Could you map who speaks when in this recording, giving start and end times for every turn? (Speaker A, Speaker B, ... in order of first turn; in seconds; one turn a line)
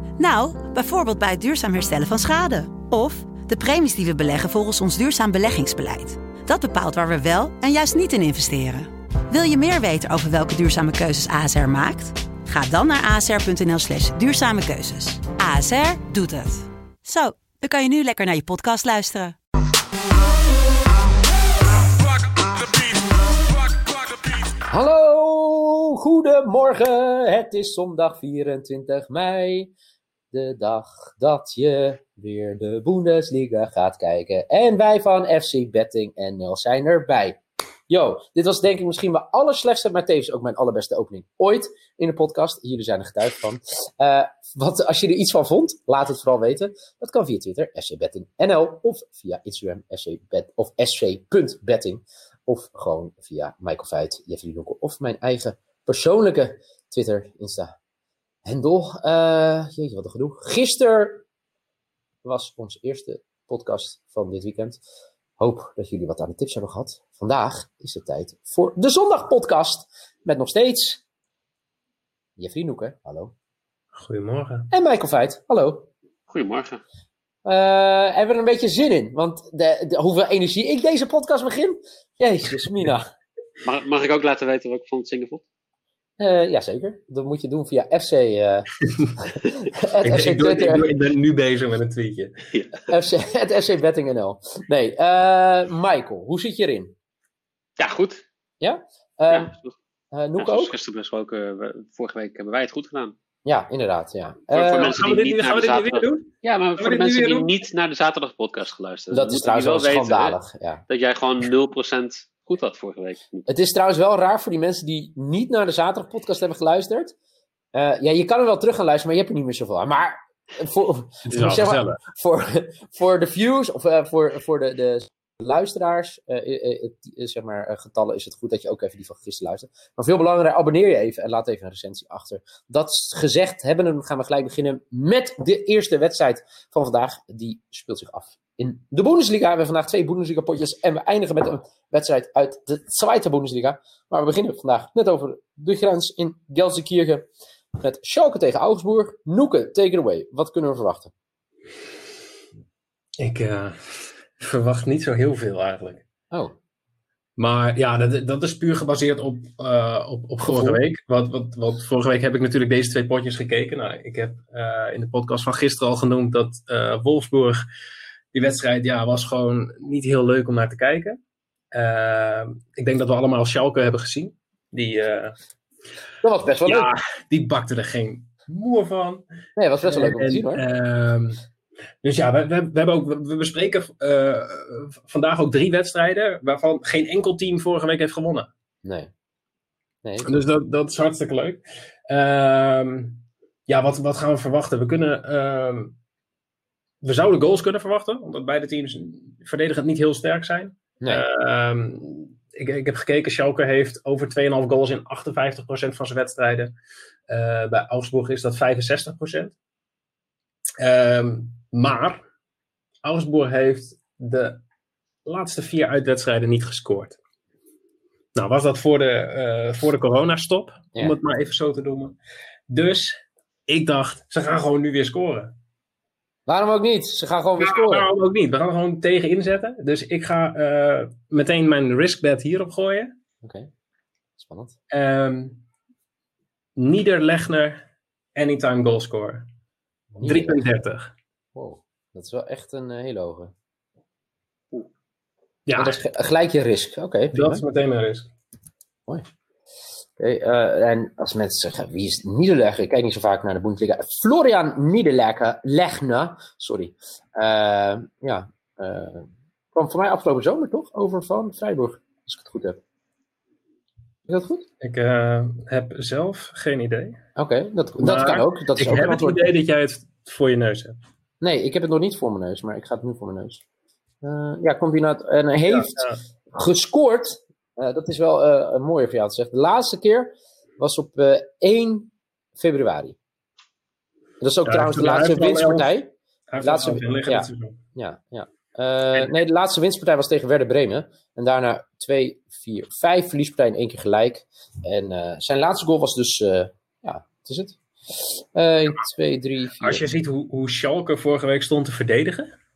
Speaker A: 0.2-19.4
Speaker B: 24.7-29.7
Speaker B: 30.3-37.4
Speaker B: 37.9-57.7
Speaker B: 58.5-61.2
Speaker B: 62.2-64.8
Speaker B: 65.4-71.0
Speaker B: 72.4-73.3
Speaker C: 73.9-74.7
Speaker B: 74.7-75.9
Speaker D: 76.3-76.8
Speaker B: 77.5-83.1
Speaker D: 83.6-85.5
Speaker B: 86.2-90.9
Speaker C: 90.0-92.3
Speaker D: 92.5-92.8
Speaker B: 92.9-96.9
Speaker D: 97.8-98.2
Speaker B: 98.6-99.5
Speaker D: 99.3-99.8
Speaker B: 100.1-100.8
Speaker D: 100.4-103.2
Speaker B: 103.5-105.0
Speaker D: 104.5-113.5
Speaker C: 104.8-107.5
Speaker B: 109.1-110.8
Speaker B: 113.5-117.1
Speaker B: 117.7-147.3
Speaker C: 121.3-122.0
Speaker B: 147.8-151.1
Speaker C: 153.2-156.1
Speaker C: 157.4-167.6
Speaker B: 160.4-160.8
Speaker C: 168.3-171.2
Speaker C: 171.7-175.4
Speaker B: 176.2-176.9
Speaker C: 176.7-179.2
Speaker B: 179.6-180.6
Speaker C: 179.9-181.4
Speaker C: 182.0-188.5
Speaker B: 190.0-190.4
Speaker C: 190.2-196.0
Speaker C: 197.0-206.7
Speaker C: 207.3-209.6
Speaker C: 210.8-212.2
Speaker C: 213.0-214.6
Speaker C: 215.2-217.2
Speaker C: 218.3-222.2
Speaker C: 222.7-225.6
Speaker B: 226.5-228.1
Speaker C: 227.6-233.1
Speaker B: 233.4-233.7
Speaker B: 234.4-234.8
Speaker C: 234.9-235.6
Speaker C: 236.8-237.8
Speaker C: 238.3-239.5
Speaker B: 240.1-240.6
Speaker C: 240.2-241.1
Speaker B: 241.6-243.5
Speaker C: 245.7-246.0
Speaker B: 245.8-247.6
Speaker C: 247.3-248.3
Speaker B: 250.2-262.8
Speaker B: 264.3-264.6
Speaker C: 264.8-267.2
Speaker B: 267.4-269.5
Speaker C: 268.0-271.0
Speaker B: 271.4-273.6
Speaker B: 274.2-283.2
Speaker C: 275.6-276.2
Speaker B: 284.4-300.0
Speaker C: 284.6-286.0
Speaker C: 286.5-287.8
Speaker C: 299.8-302.6